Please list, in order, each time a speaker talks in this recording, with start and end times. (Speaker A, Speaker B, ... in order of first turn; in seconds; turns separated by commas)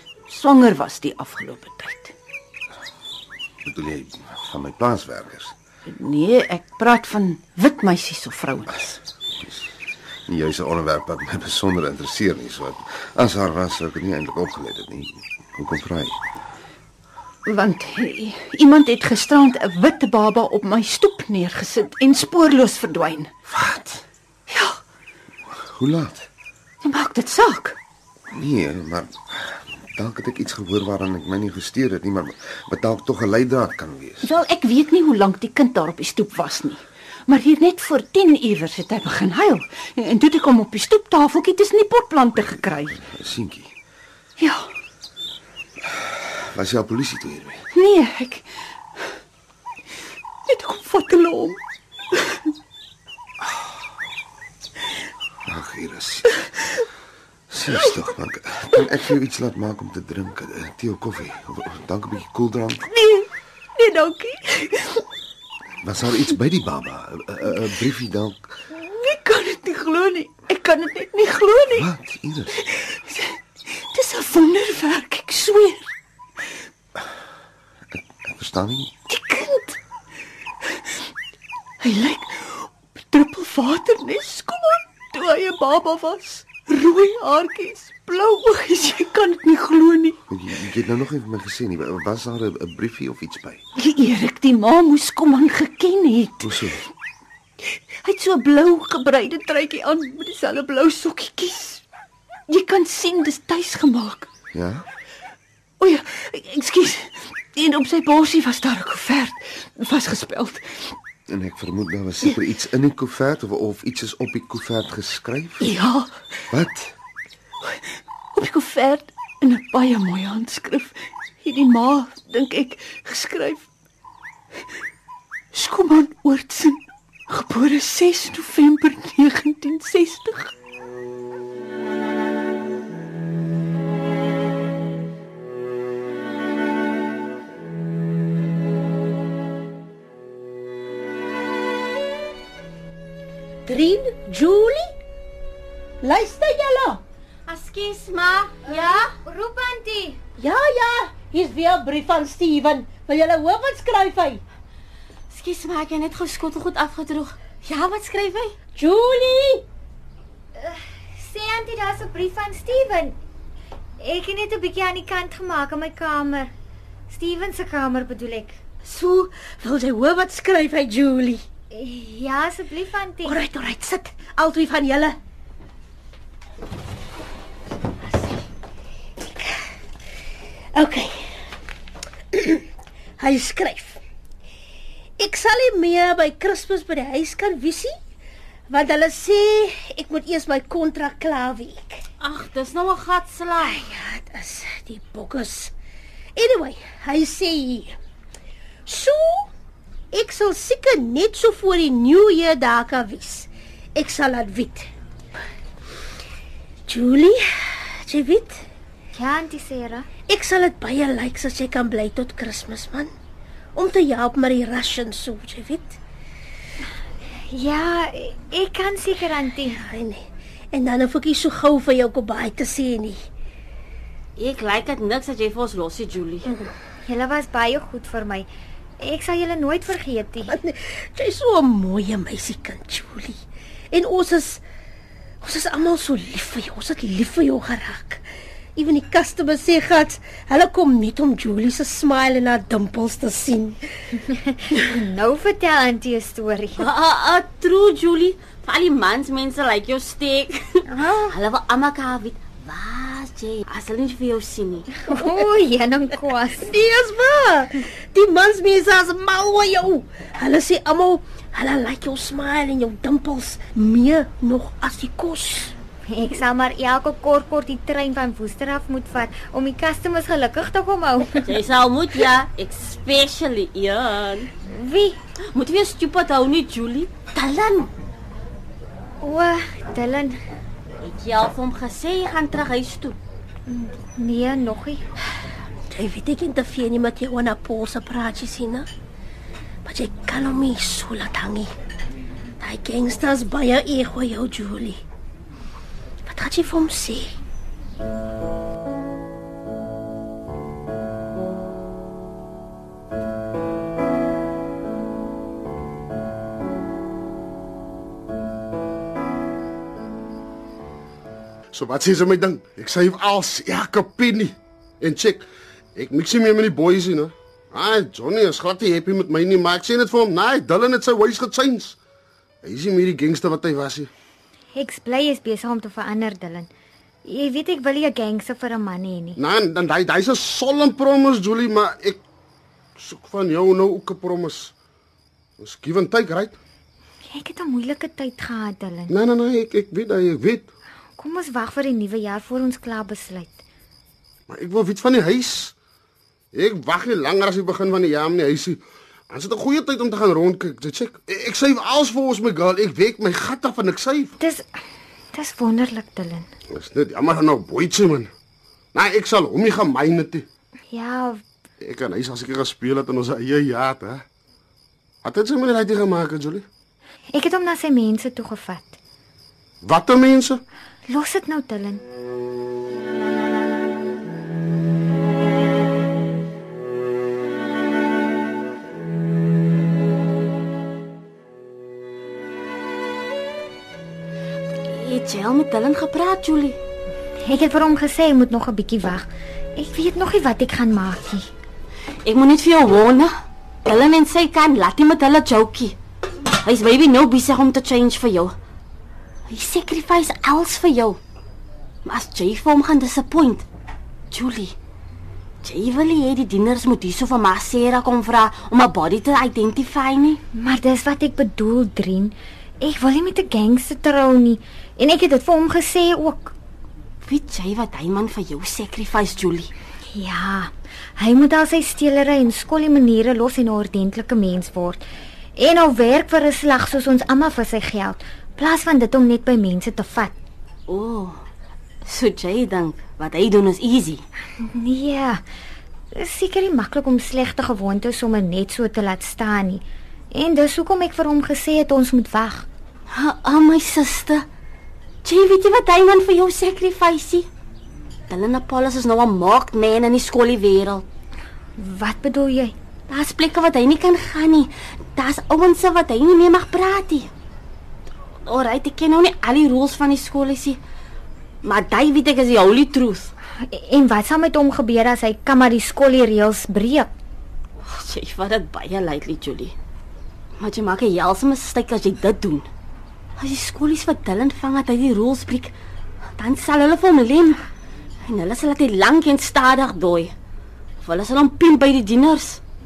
Speaker A: 0.3-2.1, Speaker B: 3.6-5.5, Speaker A: 5.9-9.0, Speaker B: 9.4-9.7, Speaker B: 10.3-16.2, Speaker A: 17.4-23.5, Speaker B: 23.5-24.0, Speaker A: 24.5-24.8, Speaker B: 25.5-26.3, Speaker A: 26.8-27.8, Speaker B: 28.3-34.3, Speaker A: 34.2-43.0, Speaker B: 43.0-43.7, Speaker A: 44.4-44.6, Speaker B: 45.9-47.6, Speaker A: 47.7-48.5, Speaker A: 50.5-51.6, Speaker A: 52.1-52.5, Speaker B: 55.5-56.3, Speaker B: 57.5-62.9, Speaker A: 62.8-65.0, Speaker B: 65.8-68.4, Speaker A: 68.7-71.9, Speaker B: 71.7-72.5, Speaker A: 72.5-75.9, Speaker B: 77.9-78.9, Speaker A: 79.1-79.8, Speaker A: 81.8-90.2, Speaker B: 90.3-93.6, Speaker A: 93.8-96.7, Speaker B: 96.4-96.8, Speaker A: 98.0-101.8, Speaker A: 102.5-104.3, Speaker B: 104.5-104.9, Speaker A: 105.8-110.9, Speaker B: 111.3-115.7, Speaker A: 115.6-116.1, Speaker B: 116.5-116.9, Speaker A: 118.3-123.6, Speaker A: 125.5-130.5, Speaker C: 143.6-145.0, Speaker C: 146.0-147.0, Speaker D: 147.5-149.0, Speaker E: 148.7-150.2, Speaker C: 150.4-154.4, Speaker D: 155.3-158.6, Speaker C: 158.7-159.7, Speaker E: 160.6-163.2, Speaker E: 164.0-166.5, Speaker E: 167.1-168.6, Speaker C: 168.9-171.4, Speaker E: 171.7-173.4, Speaker C: 173.2-175.2, Speaker C: 180.7-181.3, Speaker C: 182.3-182.6, Speaker C: 183.2-184.0, Speaker C: 185.2-187.9, Speaker C: 188.7-192.0, Speaker D: 192.2-193.8, Speaker C: 193.7-195.7, Speaker C: 196.3-198.0, Speaker C: 198.8-199.5, Speaker C: 200.1-204.9, Speaker C: 206.8-208.6, Speaker E: 209.1-210.1, Speaker C: 210.3-213.1, Speaker C: 213.7-216.0, Speaker E: 217.5-219.9, Speaker C: 219.8-223.2, Speaker D: 224.3-226.6, Speaker E: 227.1-228.5, Speaker E: 229.0-230.6, Speaker C: 230.5-234.6, Speaker C: 235.4-238.2, Speaker C: 238.8-243.8, Speaker E: 244.2-246.9, Speaker D: 246.8-255.1, Speaker E: 250.9-251.2, Speaker E: 255.1-256.7, Speaker C: 256.6-265.7, Speaker E: 266.1-271.6, Speaker D: 271.4-274.5, Speaker E: 274.7-275.2, Speaker D: 275.5-277.9, Speaker E: 279.2-280.4, Speaker D: 281.0-283.2, Speaker E: 283.7-285.0, Speaker C: 285.9-288.9, Speaker C: 289.8-291.7, Speaker C: 292.6-295.0, Speaker C: 296.2-297.3, Speaker F: 311.7-315.4, Speaker F: 315.9-322.0, Speaker F: 322.6-324.1, Speaker E: 324.7-326.7, Speaker E: 327.2-329.4, Speaker F: 329.4-332.2, Speaker F: 333.0-334.7, Speaker F: 335.6-336.6, Speaker E: 337.3-339.1, Speaker F: 339.1-340.7, Speaker E: 341.2-343.6, Speaker F: 344.5-345.7, Speaker F: 346.5-354.3, Speaker E: 355.3-356.4, Speaker F: 356.7-358.3, Speaker F: 358.9-360.4, Speaker E: 360.9-361.4, Speaker F: 361.8-364.2, Speaker F: 365.2-366.6, Speaker E: 367.3-369.0, Speaker F: 369.8-370.6, Speaker E: 371.1-372.0, Speaker D: 384.9-386.8, Speaker E: 387.4-391.5, Speaker D: 392.2-393.3, Speaker D: 393.8-395.9, Speaker D: 396.6-398.5, Speaker D: 399.5-401.2, Speaker D: 402.0-403.6, Speaker D: 404.3-404.7, Speaker D: 405.6-410.4, Speaker E: 410.6-416.5, Speaker D: 417.2-419.7, Speaker E: 420.1-425.0, Speaker E: 425.6-430.4, Speaker D: 430.9-431.4, Speaker D: 432.0-434.2, Speaker E: 434.6-435.4, Speaker E: 436.1-442.6, Speaker D: 443.1-444.4, Speaker D: 445.2-447.5, Speaker D: 448.3-451.1, Speaker E: 451.8-452.7, Speaker D: 453.1-457.3, Speaker D: 458.4-460.8, Speaker D: 461.6-463.3, Speaker E: 463.7-467.1, Speaker D: 467.8-469.7, Speaker D: 470.6-472.7, Speaker D: 473.4-475.7, Speaker D: 476.4-477.6, Speaker D: 478.3-480.3, Speaker D: 481.0-482.6